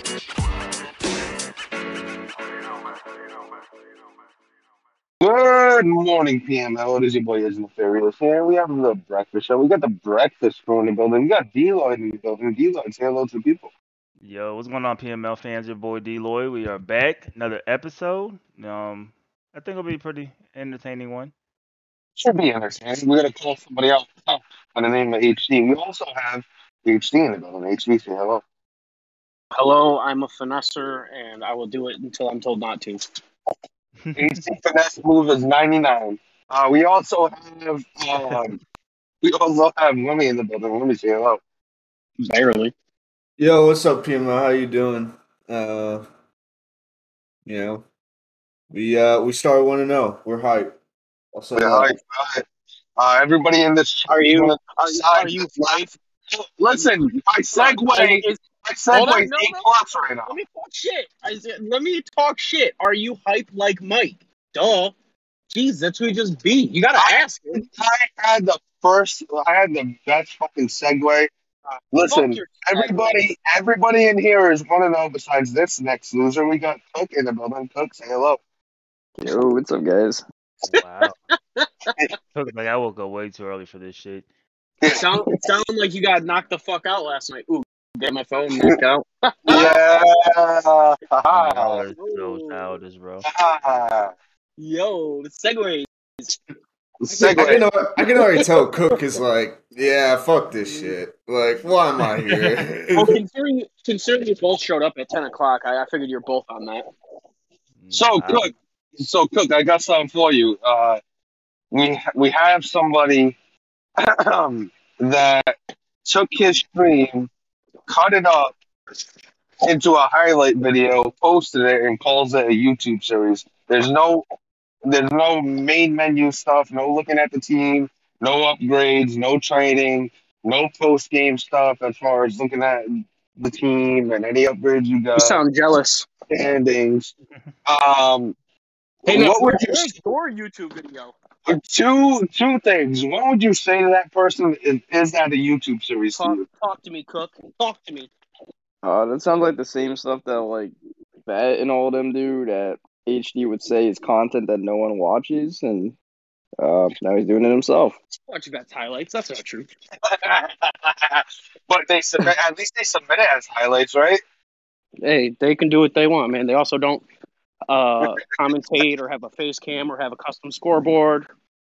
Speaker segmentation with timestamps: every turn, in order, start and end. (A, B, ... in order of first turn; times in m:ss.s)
0:05.2-0:13.7 A
0:14.2-0:21.3 B
0:22.2-0:28.4 A
0:29.5-0:33.0 C
0:34.0-0:34.4 B
0:34.1-0:38.6 A
0:39.2-0:41.4 A
0:42.2-0:42.7 C
0:43.4-0:46.0 D
0:47.4-0:47.8 D
0:48.7-0:50.7 D
0:51.3-0:51.9 D
0:51.5-0:52.4 A
0:53.0-1:00.3 A
0:54.1-0:55.8 C
0:57.5-0:59.6 C
1:00.3-1:04.9 C
1:05.5-1:07.6 C
1:07.0-1:11.3 A
1:11.9-1:18.4 A
1:12.0-1:13.2 C
1:19.2-1:20.2 E
1:20.6-1:21.1 B
1:20.8-1:21.9 C
1:22.3-1:24.2 B
1:24.8-1:25.3 A
1:24.8-1:29.8 C
1:29.5-1:31.9 A
1:31.3-1:33.2 B
1:31.9-1:32.7 C
1:33.3-1:34.1 A
1:34.6-1:36.3 C
1:37.0-1:37.6 A
1:37.1-1:37.7 C
1:37.3-1:43.2 D
1:40.7-1:40.9 C
1:42.9-1:46.8 C
1:47.8-1:48.5 B
1:47.9-1:51.0 A
1:51.7-1:53.3 A
1:54.0-1:57.3 A
1:57.9-1:58.6 A
1:59.6-2:04.2 A
2:04.8-2:15.4 A
2:15.1-2:16.1 C
2:16.3-2:17.1 A
2:17.7-2:18.3 A
2:19.0-2:20.0 A
2:19.0-2:21.1 C
2:21.5-2:26.4 A
2:26.2-2:28.1 C
2:28.8-2:30.7 E
2:31.3-2:35.9 E
2:36.6-2:38.0 E
2:38.3-2:39.7 C
2:40.1-2:44.2 A
2:45.0-2:47.0 C
2:47.7-2:51.3 C
2:48.0-2:48.8 A